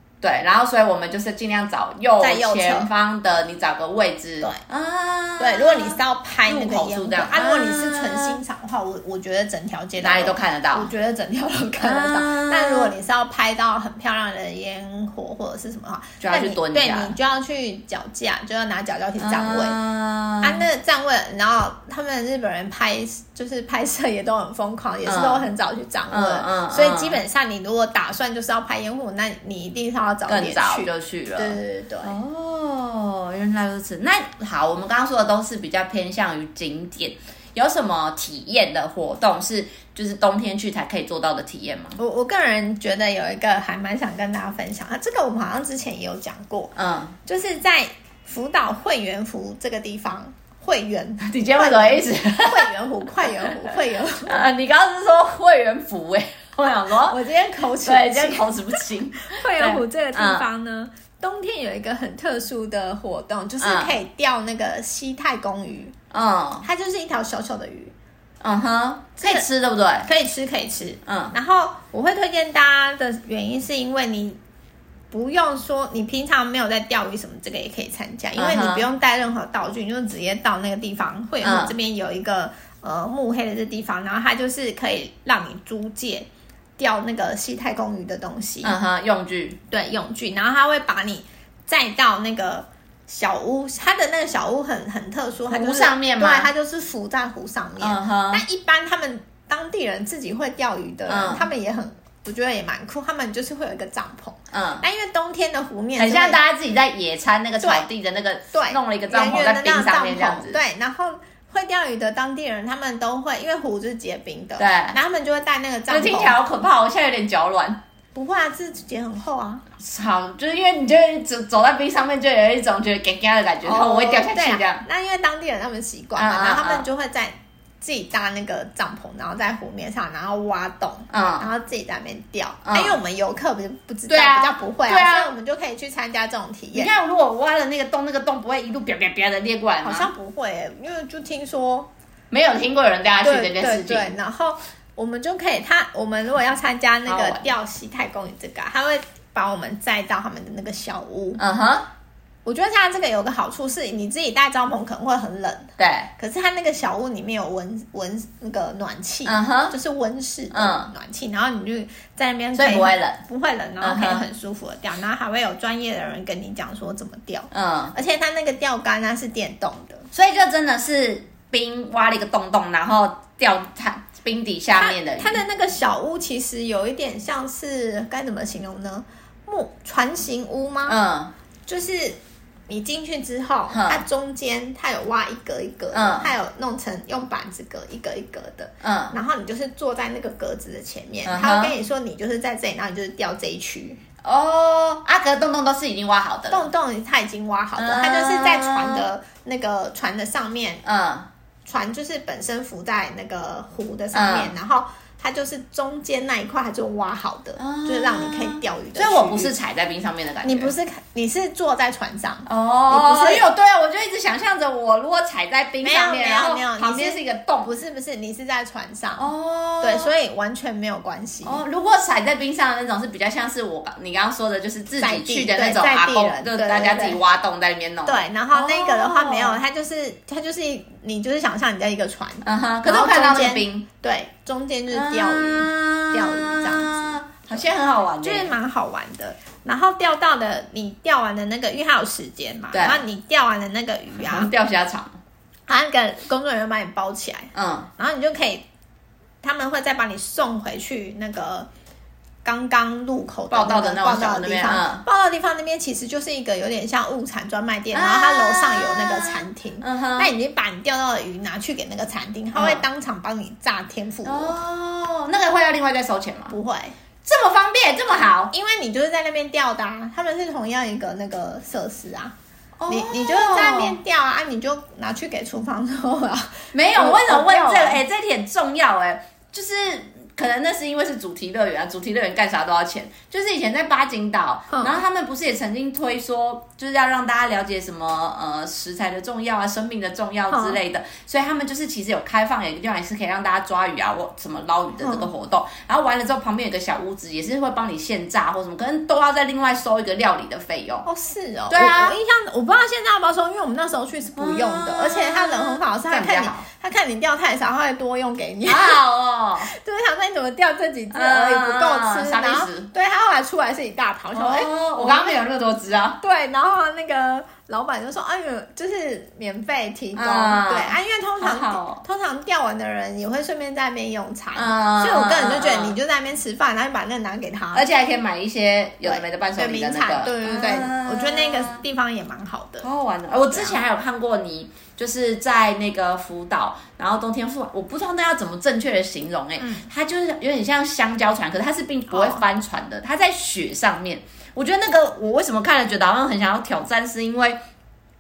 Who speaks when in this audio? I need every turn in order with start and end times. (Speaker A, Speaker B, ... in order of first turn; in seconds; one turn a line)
Speaker A: 0.2-8.4
Speaker B: 2.2-2.9
Speaker B: 5.4-19.8
Speaker A: 10.0-10.9
Speaker A: 11.8-12.9
Speaker A: 16.2-17.1
Speaker A: 19.2-20.6
Speaker B: 20.4-32.2
Speaker A: 25.1-25.5
Speaker A: 26.1-27.2
Speaker A: 30.3-42.0
Speaker B: 42.0-46.8
Speaker A: 46.8-47.1
Speaker B: 47.3-54.4
Speaker A: 51.2-52.7
Speaker A: 53.2-53.5
Speaker A: 54.3-57.2
Speaker B: 57.0-65.9
Speaker A: 57.8-60.5
Speaker A: 63.6-63.9
Speaker A: 66.1-66.7
Speaker B: 66.6-67.9
Speaker A: 68.4-70.1
Speaker B: 69.2-69.5
Speaker B: 70.0-74.4
Speaker A: 71.1-71.3
Speaker B: 75.1-86.3
Speaker A: 78.4-78.9
Speaker A: 81.4-81.8
Speaker B: 86.8-88.8
Speaker A: 88.6-89.6
Speaker B: 89.7-106.4
Speaker A: 95.5-96.5
Speaker A: 97.8-98.4
Speaker A: 101.1-101.5
Speaker A: 104.5-104.8
Speaker A: 106.0-110.6
Speaker B: 107.6-107.9
Speaker B: 108.5-116.4
Speaker A: 114.6-115.0
Speaker A: 115.9-117.8
Speaker B: 118.2-119.7
Speaker A: 119.8-124.8
Speaker B: 123.6-136.9
Speaker A: 126.2-126.9
Speaker A: 131.1-131.5
Speaker A: 132.7-133.0
Speaker A: 134.1-135.3
Speaker A: 136.7-140.1
Speaker B: 139.8-141.9
Speaker A: 142.3-144.1
Speaker B: 143.2-151.4
Speaker A: 147.1-147.5
Speaker A: 151.4-151.9
Speaker B: 152.4-170.1
Speaker A: 155.8-156.1
Speaker A: 159.2-159.8
Speaker A: 160.5-160.9
Speaker A: 162.6-163.2
Speaker A: 163.8-164.2
Speaker A: 167.5-167.9
Speaker A: 170.1-175.4
Speaker B: 174.8-181.0
Speaker A: 180.9-181.3
Speaker B: 181.7-182.2
Speaker B: 182.7-194.0
Speaker A: 183.7-184.0
Speaker A: 185.9-186.3
Speaker A: 188.8-189.2
Speaker A: 191.2-191.8
Speaker A: 194.2-196.7
Speaker B: 196.5-200.8
Speaker A: 197.8-199.1
Speaker A: 200.8-201.3
Speaker B: 201.7-209.6
Speaker A: 204.1-204.6
Speaker A: 207.6-210.7
Speaker B: 210.4-213.5
Speaker A: 212.5-217.7
Speaker B: 215.8-219.3
Speaker A: 219.2-220.1
Speaker B: 219.8-221.6
Speaker A: 221.4-229.6
Speaker B: 225.0-227.2
Speaker B: 228.1-237.6
Speaker A: 232.4-233.9
Speaker A: 234.9-238.5
Speaker B: 238.2-244.5
Speaker A: 242.7-243.0
Speaker A: 244.2-245.2
Speaker B: 245.7-248.7
Speaker A: 247.6-247.9
Speaker B: 249.4-251.7
Speaker B: 252.4-264.6
Speaker A: 253.5-255.0
Speaker A: 257.9-260.3
Speaker A: 262.5-262.8
Speaker A: 264.2-266.6
Speaker B: 266.5-266.9
Speaker A: 267.2-268.5
Speaker B: 268.5-272.3
Speaker A: 272.8-274.0
Speaker B: 272.9-278.0
Speaker A: 276.7-301.1
Speaker B: 284.7-285.0
Speaker B: 290.5-290.8
Speaker B: 295.0-295.3
Speaker B: 301.1-309.0
Speaker A: 301.7-302.2
Speaker A: 304.4-306.7
Speaker A: 308.7-309.7
Speaker B: 309.6-315.4
Speaker A: 311.1-312.9
Speaker A: 314.3-316.2
Speaker B: 316.2-327.9
Speaker A: 320.1-322.0
Speaker A: 324.5-326.0
Speaker A: 327.7-331.8
Speaker B: 329.0-332.9
Speaker A: 332.8-347.6
Speaker B: 333.5-333.8
Speaker B: 339.6-339.9
Speaker B: 342.1-342.4